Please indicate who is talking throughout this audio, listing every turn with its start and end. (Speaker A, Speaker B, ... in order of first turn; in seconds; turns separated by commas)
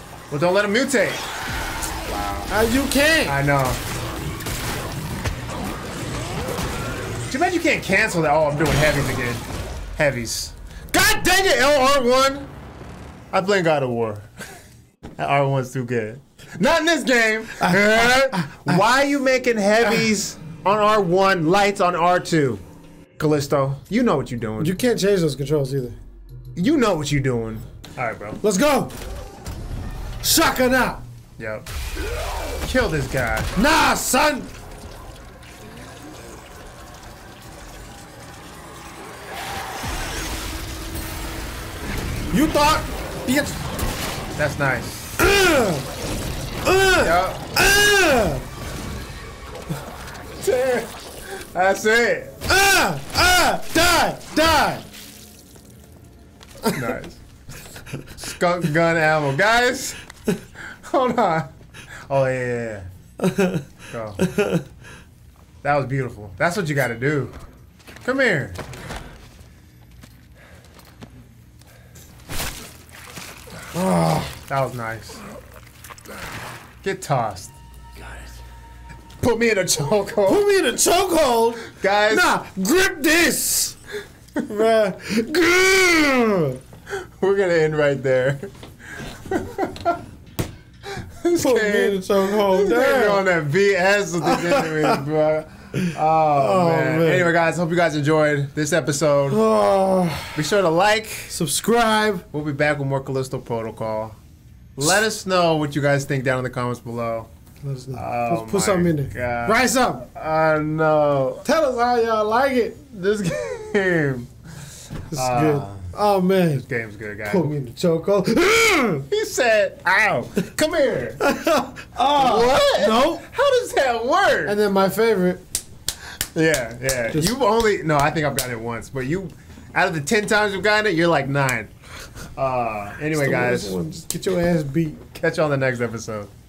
Speaker A: 0.3-1.2, Speaker A: 2.0-2.5, Speaker B: 2.5-3.4, Speaker A: 3.3-3.8, Speaker A: 7.3-12.5, Speaker A: 13.3-14.4, Speaker A: 15.2-22.6, Speaker B: 17.6-18.8, Speaker A: 23.2-24.7, Speaker B: 24.6-26.0, Speaker A: 26.6-28.4, Speaker B: 28.4-28.9, Speaker B: 30.2-31.0, Speaker A: 31.4-31.7, Speaker A: 32.6-33.5, Speaker B: 33.6-34.5, Speaker A: 42.3-43.6, Speaker A: 44.4-45.2, Speaker B: 45.2-45.9, Speaker B: 46.6-48.5, Speaker A: 47.0-47.4, Speaker A: 50.4-52.4, Speaker B: 52.5-54.9, Speaker A: 56.7-57.2, Speaker A: 58.2-60.0, Speaker A: 60.5-62.9, Speaker B: 63.2-63.7, Speaker A: 63.9-64.2, Speaker B: 64.2-64.7, Speaker A: 65.6-67.3, Speaker A: 68.0-68.6, Speaker B: 73.7-74.4, Speaker A: 74.5-75.3, Speaker A: 76.8-77.5, Speaker A: 79.2-80.5, Speaker B: 80.3-83.8, Speaker A: 81.7-82.3, Speaker B: 84.5-86.6, Speaker A: 86.9-90.0, Speaker A: 90.9-99.4, Speaker B: 91.4-93.2, Speaker B: 94.2-95.0, Speaker B: 95.8-97.3, Speaker B: 99.3-100.4, Speaker A: 100.3-101.4, Speaker B: 101.3-102.2, Speaker A: 102.3-104.2, Speaker A: 104.8-107.3, Speaker B: 107.6-110.1, Speaker A: 107.9-111.5, Speaker B: 111.5-112.9, Speaker A: 112.9-115.9, Speaker B: 115.1-116.7, Speaker A: 116.5-117.5, Speaker B: 117.2-119.1, Speaker A: 119.1-121.2, Speaker B: 121.2-123.2, Speaker A: 122.0-124.6, Speaker B: 124.5-125.4, Speaker A: 126.3-131.7, Speaker A: 132.4-133.8, Speaker B: 133.1-135.0, Speaker A: 135.1-136.3